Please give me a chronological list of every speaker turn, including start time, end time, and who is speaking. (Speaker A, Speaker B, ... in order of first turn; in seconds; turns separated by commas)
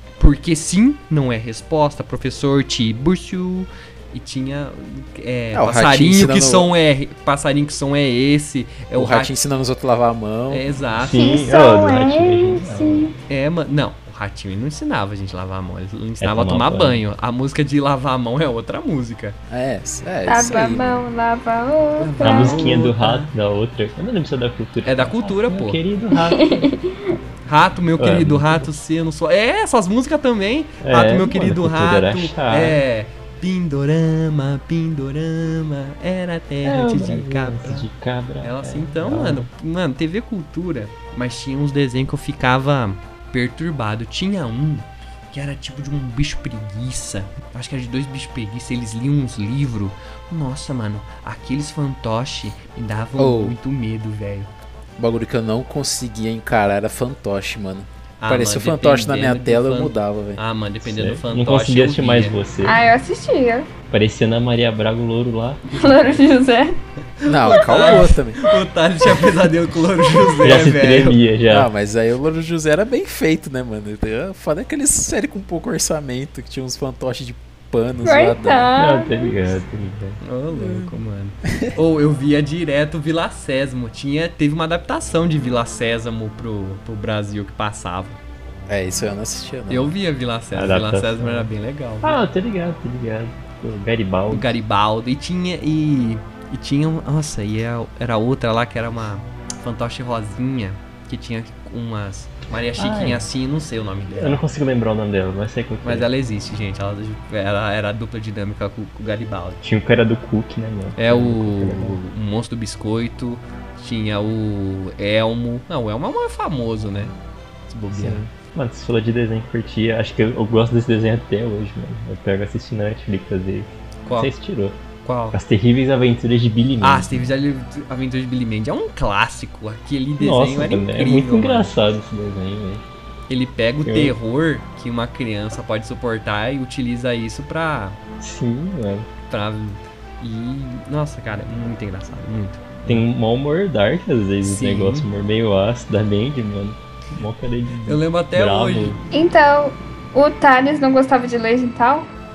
Speaker A: 0.2-9.3, Speaker B: 5.5-6.7, Speaker B: 8.9-10.7, Speaker A: 10.5-11.2, Speaker C: 10.9-13.1, Speaker D: 11.1-13.2, Speaker A: 13.3-19.4, Speaker C: 16.2-17.0, Speaker B: 19.5-21.0, Speaker D: 20.3-22.7, Speaker A: 22.0-23.3, Speaker C: 22.2-26.7, Speaker A: 24.8-25.8, Speaker D: 26.2-27.2, Speaker A: 27.5-37.9, Speaker C: 28.0-28.7, Speaker C: 30.8-32.8, Speaker C: 36.6-39.5, Speaker A: 38.4-54.5, Speaker B: 53.2-53.6, Speaker B: 55.0-60.4, Speaker A: 58.2-62.4, Speaker C: 60.8-62.8, Speaker D: 62.6-63.7, Speaker C: 63.9-66.2, Speaker D: 65.7-66.8, Speaker A: 65.9-66.1, Speaker A: 67.2-71.2, Speaker B: 67.3-68.4, Speaker D: 69.0-69.3, Speaker D: 70.0-70.3, Speaker C: 70.4-71.7, Speaker B: 71.5-78.7, Speaker D: 78.0-79.5, Speaker C: 78.8-80.2, Speaker A: 80.2-88.2, Speaker B: 80.5-80.9, Speaker B: 88.7-89.9, Speaker A: 89.7-92.2, Speaker C: 90.5-91.5, Speaker C: 92.0-94.6, Speaker A: 94.3-104.4, Speaker C: 102.8-103.3, Speaker C: 104.2-106.1, Speaker A: 105.8-109.6, Speaker C: 109.6-112.0, Speaker A: 111.0-117.1, Speaker A: 117.7-118.2, Speaker C: 117.9-124.8, Speaker A: 124.0-124.3, Speaker A: 125.0-125.4, Speaker C: 125.3-127.3, Speaker A: 126.8-131.8, Speaker C: 130.2-132.8, Speaker A: 133.3-138.0, Speaker C: 133.8-134.2, Speaker C: 138.2-139.1, Speaker A: 139.3-143.1, Speaker C: 142.9-149.0, Speaker A: 144.4-145.1, Speaker A: 147.9-149.0, Speaker D: 149.1-152.1